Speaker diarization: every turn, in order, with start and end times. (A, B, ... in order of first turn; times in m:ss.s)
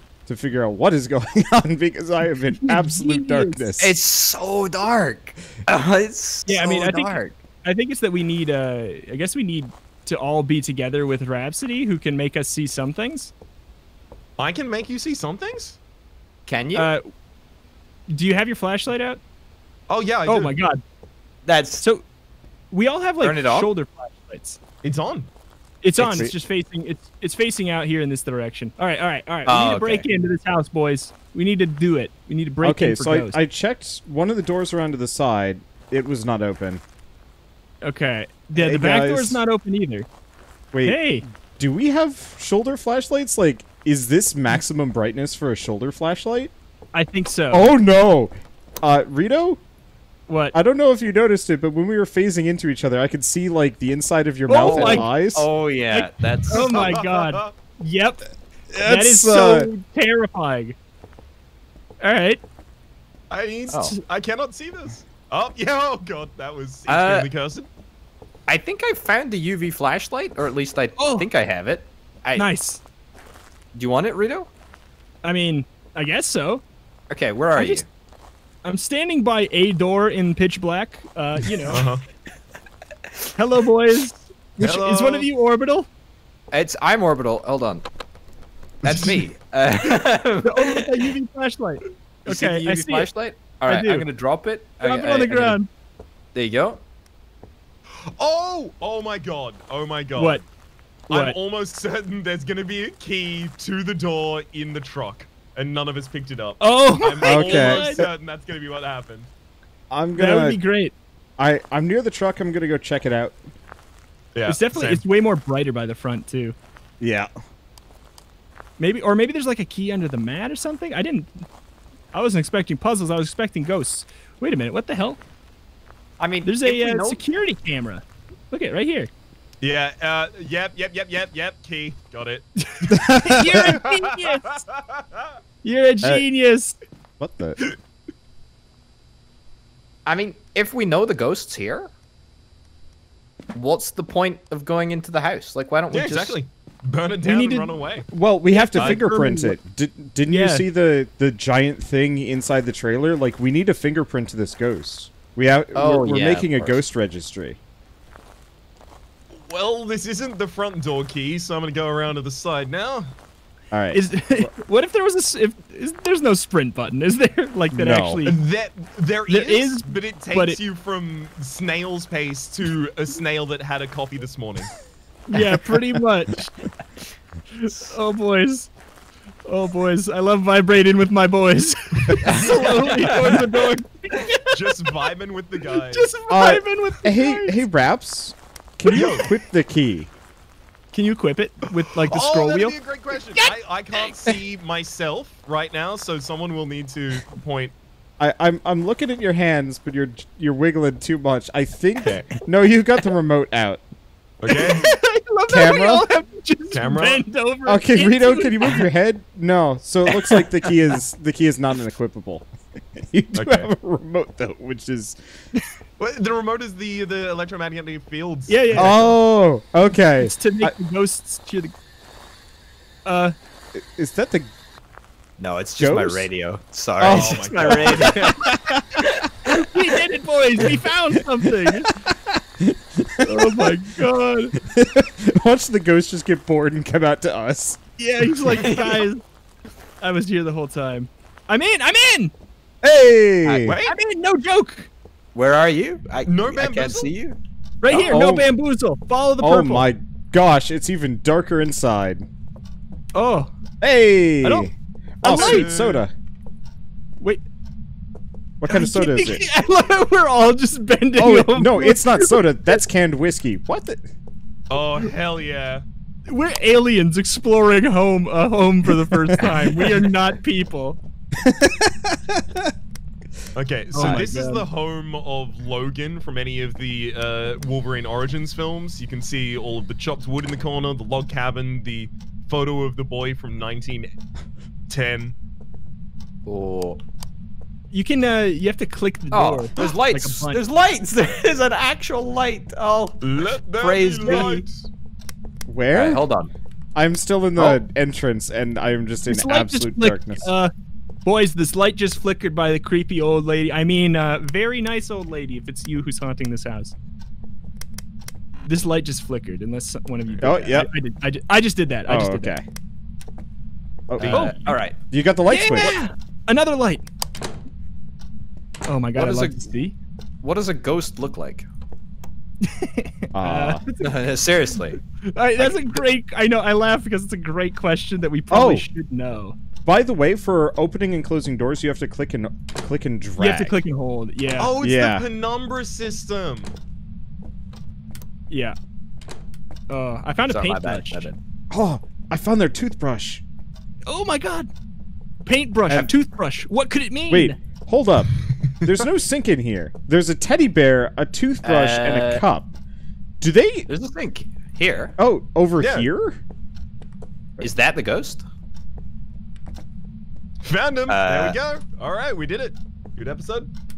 0:00.3-0:04.0 A
0:02.6-0:03.7 B
0:03.8-0:07.3 C
0:06.5-0:13.3 B
0:14.4-0:15.8 D
0:16.5-0:16.9 C
0:16.8-0:17.1 B
0:18.1-0:19.2 B
0:19.9-0:20.6 D
0:20.2-0:20.8 B
0:21.5-0:21.8 C
0:22.7-0:24.6 B
0:23.2-0:23.7 C
0:24.8-0:25.3 D
0:25.8-0:33.4 B
0:26.0-0:26.3 A
0:29.5-0:30.1 C
0:32.6-0:36.8 A
0:37.8-0:40.1 B
0:38.6-0:39.4 A
0:40.7-0:46.5 A
0:40.8-0:41.2 B
0:46.9-0:47.7 B
0:47.5-0:49.6 A
0:50.3-0:50.6 B
0:50.5-0:55.5 A
0:54.5-0:55.1 B
0:54.6-0:57.0 C
0:55.9-0:58.2 B
0:56.5-0:57.5 D
0:58.7-0:59.7 A
0:58.8-1:00.8 B
1:02.0-1:02.4 B
1:03.3-1:07.7 D
1:03.7-1:04.0 C
1:06.9-1:07.3 C
1:08.5-1:12.5 C
1:11.0-1:11.3 B
1:12.4-1:12.8 B
1:13.7-1:14.5 C
1:15.2-1:16.6 B
1:17.1-1:17.9 C
1:17.6-1:17.8 B
1:18.6-1:21.8 B
1:21.7-1:22.0 D
1:23.4-1:25.9 B
1:24.6-1:25.3 D
1:26.5-1:27.8 C
1:28.8-1:29.3 D
1:28.8-1:31.1 C
1:30.4-1:33.1 B
1:32.3-1:35.6 C
1:33.7-1:34.1 B
1:34.8-1:35.7 B
1:36.3-1:36.8 C
1:38.2-1:40.4 D
1:40.2-1:40.4 B
1:41.1-1:41.4 B
1:41.1-1:49.3 D
1:46.6-1:48.1 B
1:47.2-1:48.1 A
1:49.9-1:50.6 A
1:50.2-1:50.9 B
1:51.4-1:53.4 A
1:54.3-1:55.0 D
1:54.5-1:56.6 B
1:57.0-1:57.3 A
1:58.8-2:01.3 B
2:02.1-2:05.2 B
2:06.2-2:07.2 C
2:06.4-2:09.1 B
2:09.6-2:15.3 D
2:12.6-2:14.6 B
2:12.9-2:13.8 A
2:15.6-2:16.8 B
2:17.2-2:17.6 A
2:20.1-2:21.9 C
2:23.5-2:26.4 C
2:25.9-2:28.1 D
2:27.2-2:27.7 B
2:28.1-2:37.6 A
2:28.5-2:29.6 B
2:30.3-2:30.7 B
2:35.7-2:36.8 C
2:39.3-2:43.1 D
2:43.7-2:44.5 A
2:43.9-2:48.4 B
2:47.7-2:48.3 A
2:48.2-2:54.7 D
2:49.3-2:50.6 B
2:55.3-2:56.6 B
2:57.6-2:58.7 B
2:57.7-2:57.9 C
2:59.5-3:04.6 B
3:02.2-3:03.5 C
3:04.5-3:06.1 D
3:05.8-3:07.6 B
3:06.3-3:10.1 A
3:08.9-3:09.3 D
3:08.9-3:09.3 B
3:10.9-3:12.8 B
3:12.0-3:17.7 D
3:13.3-3:14.4 B
3:18.2-3:23.8 A
3:24.4-3:24.9 D
3:24.5-3:28.8 B
3:25.5-3:26.1 A
3:26.7-3:27.2 D
3:27.7-3:35.2 A
3:33.4-3:33.7 D
3:36.0-3:39.1 D
3:38.5-3:39.1 B
3:38.7-3:40.8 A
3:40.2-3:41.7 B
3:43.1-3:43.4 B
3:43.7-3:44.5 A
3:45.4-3:48.4 C
3:45.8-3:46.3 A
3:47.0-3:48.1 A
3:47.0-3:48.4 D
3:47.7-3:51.9 B
3:49.2-3:49.6 C
3:51.4-3:53.7 A
3:53.2-3:54.6 B
3:54.6-3:57.8 A
3:58.0-3:59.2 B
3:58.5-3:59.0 C
4:00.0-4:02.3 B
4:02.8-4:03.8 A
4:03.4-4:03.8 C
4:03.6-4:04.0 D
4:03.8-4:04.9 B
4:05.4-4:07.4 C
4:06.2-4:07.1 D
4:07.8-4:09.9 B
4:07.9-4:08.5 A
4:09.4-4:12.3 A
4:13.1-4:13.5 B
4:13.8-4:16.1 A
4:14.4-4:14.7 B
4:15.2-4:15.7 B
4:15.3-4:16.0 D
4:18.6-4:19.4 A
4:18.7-4:22.8 B
4:21.2-4:24.1 A
4:24.7-4:25.8 D
4:26.3-4:31.0 B
4:29.1-4:30.1 A
4:31.4-4:32.7 A
4:33.6-4:44.1 D
4:33.9-4:34.7 B
4:34.0-4:34.2 A
4:44.9-4:45.4 D
4:46.4-4:47.0 C
4:47.9-4:50.6 B
4:49.3-4:53.2 C
4:53.2-4:54.9 D
4:53.8-4:54.6 C
4:54.2-4:54.6 B
4:55.7-4:56.2 A
4:55.9-4:56.5 C
4:57.0-5:00.5 A
4:59.3-5:00.7 B
5:01.2-5:06.9 B
5:08.7-5:12.5 B
5:10.4-5:10.9 A
5:12.1-5:12.6 A
5:14.1-5:16.0 A
5:14.2-5:15.0 C
5:14.3-5:14.7 B
5:15.5-5:17.1 B
5:18.9-5:20.0 B
5:19.2-5:19.7 C
5:20.4-5:21.7 C
5:22.6-5:29.6 B
5:23.3-5:23.8 A
5:24.0-5:25.0 C
5:25.6-5:26.0 C
5:28.5-5:28.9 A
5:29.9-5:33.8 A
5:33.4-5:34.8 B
5:34.6-5:36.7 D
5:34.8-5:35.3 A
5:38.5-5:38.8 B
5:39.9-5:41.3 B
5:40.5-5:41.4 C
5:41.7-5:43.4 A
5:44.1-5:44.7 B
5:45.5-5:47.6 B
5:47.3-5:48.3 A
5:48.8-5:49.1 D
5:48.8-5:52.7 A
5:51.6-5:52.4 C
5:53.4-5:53.9 A
5:53.9-5:55.1 C
5:55.2-5:56.4 A
5:55.8-5:56.1 D
5:57.6-5:58.4 C
6:00.6-6:03.7 D
6:01.1-6:01.6 C